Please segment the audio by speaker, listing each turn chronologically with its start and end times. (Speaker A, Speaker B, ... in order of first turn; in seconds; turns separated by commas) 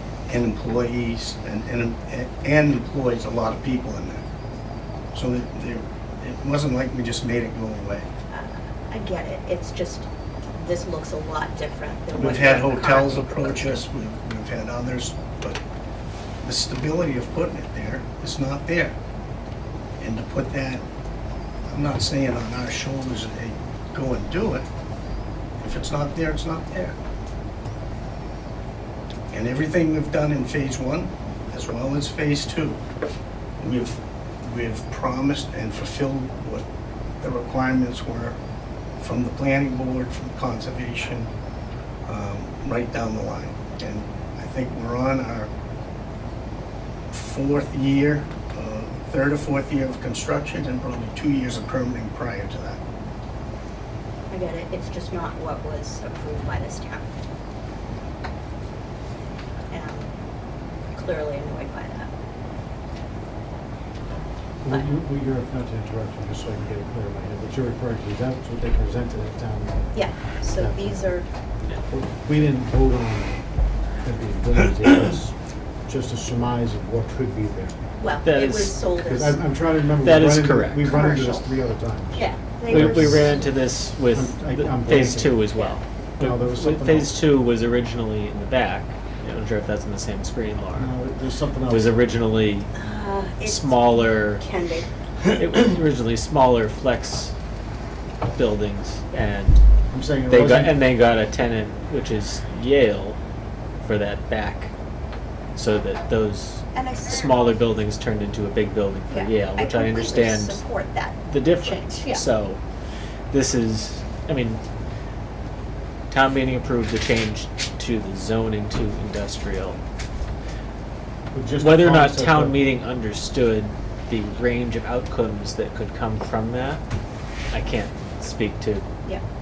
Speaker A: 0.3-4.2, Speaker A: 5.1-8.1, Speaker B: 8.3-10.1, Speaker B: 10.6-13.8, Speaker A: 12.2-15.6, Speaker A: 16.4-18.9, Speaker A: 20.0-20.8, Speaker A: 21.7-24.7, Speaker A: 25.6-26.9, Speaker A: 29.3-32.8, Speaker A: 33.6-36.6, Speaker A: 37.2-38.4, Speaker A: 39.0-41.3, Speaker A: 42.0-45.5, Speaker A: 47.1-52.8, Speaker B: 54.3-57.0, Speaker B: 59.7-60.1, Speaker B: 60.9-62.1, Speaker C: 64.6-71.1, Speaker B: 69.9-71.3, Speaker C: 71.9-73.4, Speaker C: 74.0-75.3, Speaker C: 75.9-77.8, Speaker B: 78.0-79.4, Speaker D: 78.2-78.8, Speaker C: 79.0-83.5, Speaker D: 80.0-81.0, Speaker B: 80.9-81.4, Speaker B: 82.2-83.4, Speaker D: 82.7-90.9, Speaker C: 84.1-85.4, Speaker C: 86.2-87.1, Speaker C: 90.7-91.9, Speaker D: 91.7-92.7, Speaker B: 92.7-94.9, Speaker D: 93.4-94.4, Speaker D: 95.3-97.3, Speaker D: 98.3-99.6, Speaker C: 99.9-100.8, Speaker D: 100.3-103.2, Speaker D: 103.8-104.7, Speaker D: 105.5-110.6, Speaker B: 106.7-107.5, Speaker B: 109.1-112.2, Speaker D: 111.2-112.6, Speaker D: 113.3-114.6, Speaker D: 116.1-119.8, Speaker C: 121.3-122.6, Speaker D: 121.6-126.8, Speaker D: 127.5-128.8